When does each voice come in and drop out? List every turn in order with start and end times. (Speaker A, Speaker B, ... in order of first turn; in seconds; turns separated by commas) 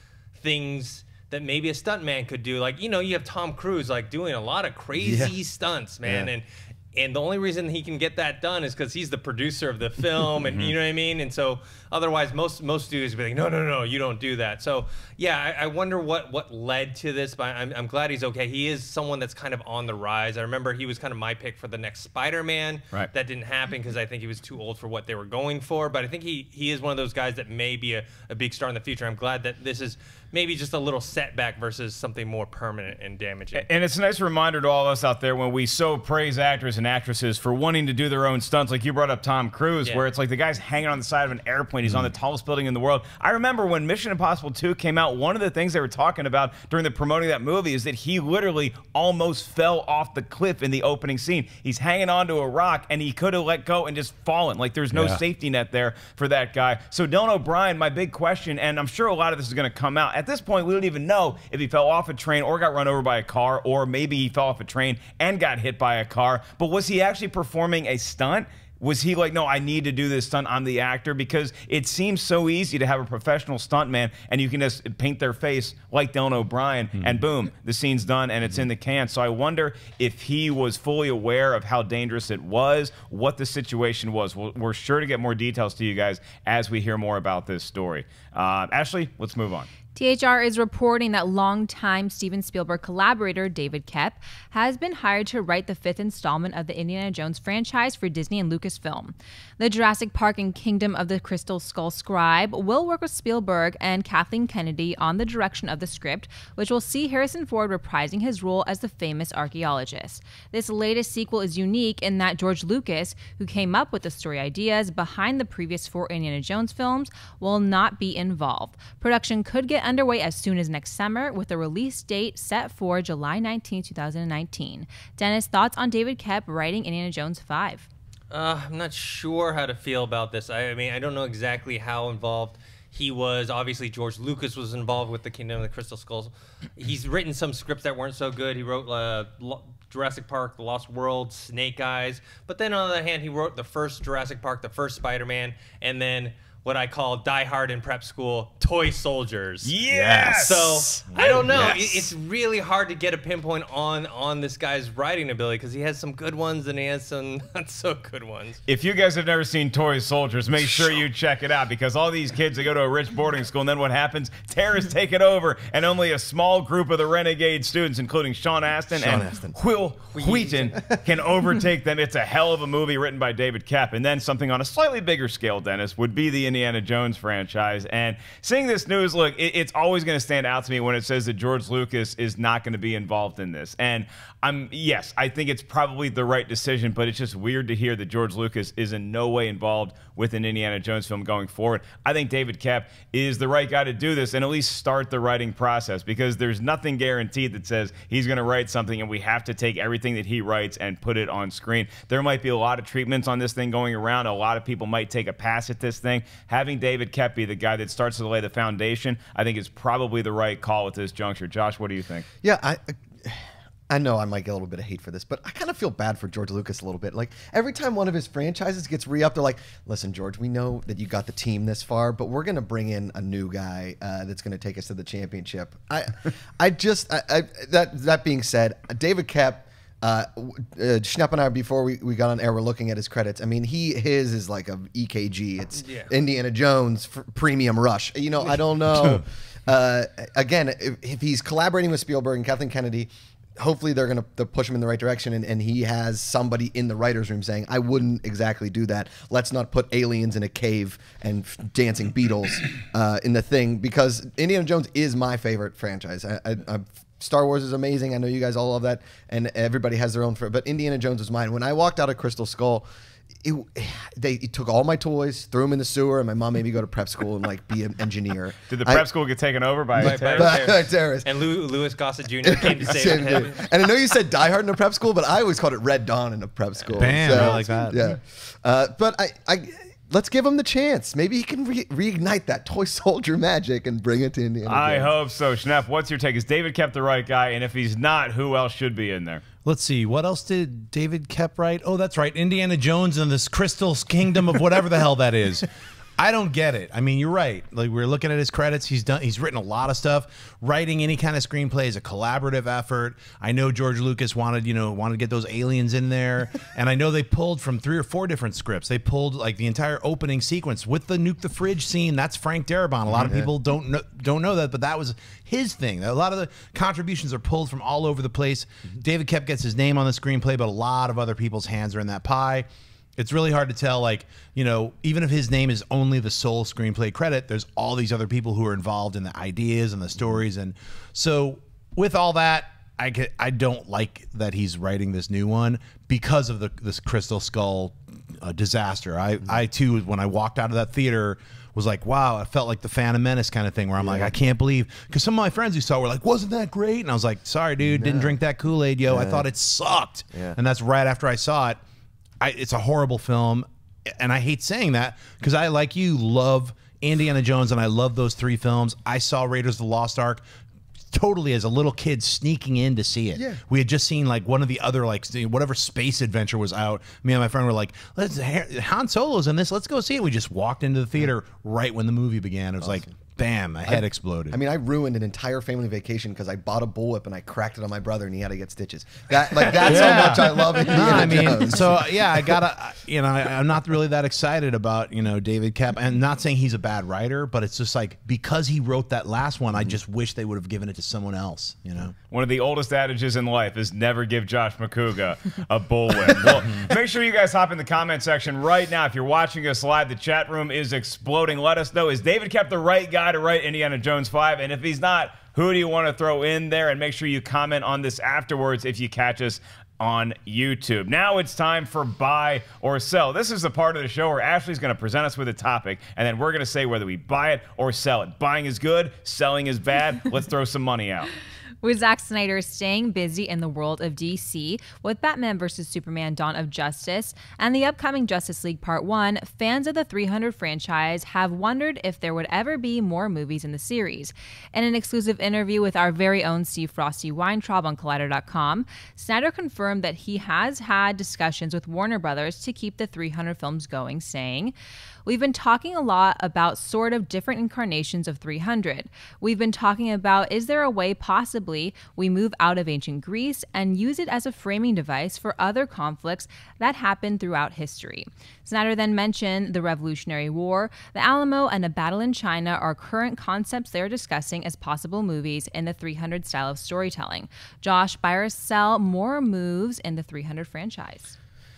Speaker A: 0.3-33.7, Speaker B: 5.0-5.3, Speaker B: 6.0-6.3, Speaker C: 33.5-89.7, Speaker D: 54.9-55.2, Speaker E: 90.0-127.9, Speaker A: 128.3-158.6, Speaker C: 149.6-151.9, Speaker D: 149.9-150.3, Speaker D: 151.1-151.9, Speaker C: 158.7-212.3, Speaker B: 168.9-169.6, Speaker A: 170.1-170.7, Speaker B: 212.4-262.9, Speaker A: 235.8-236.1, Speaker B: 263.4-269.0, Speaker C: 268.7-270.6, Speaker A: 270.0-273.6, Speaker B: 270.0-271.3, Speaker B: 272.4-285.1, Speaker D: 277.0-278.1, Speaker C: 284.7-289.4, Speaker D: 289.6-295.7, Speaker D: 296.2-322.7, Speaker B: 313.2-313.5, Speaker D: 323.2-351.8, Speaker B: 344.0-344.3, Speaker B: 347.8-348.3, Speaker B: 349.1-349.4, Speaker D: 352.4-360.4, Speaker D: 361.1-374.6, Speaker B: 363.3-363.6, Speaker B: 373.9-382.4, Speaker D: 379.8-392.1, Speaker A: 379.9-380.3, Speaker C: 392.3-421.3, Speaker E: 421.8-444.7, Speaker E: 445.2-471.4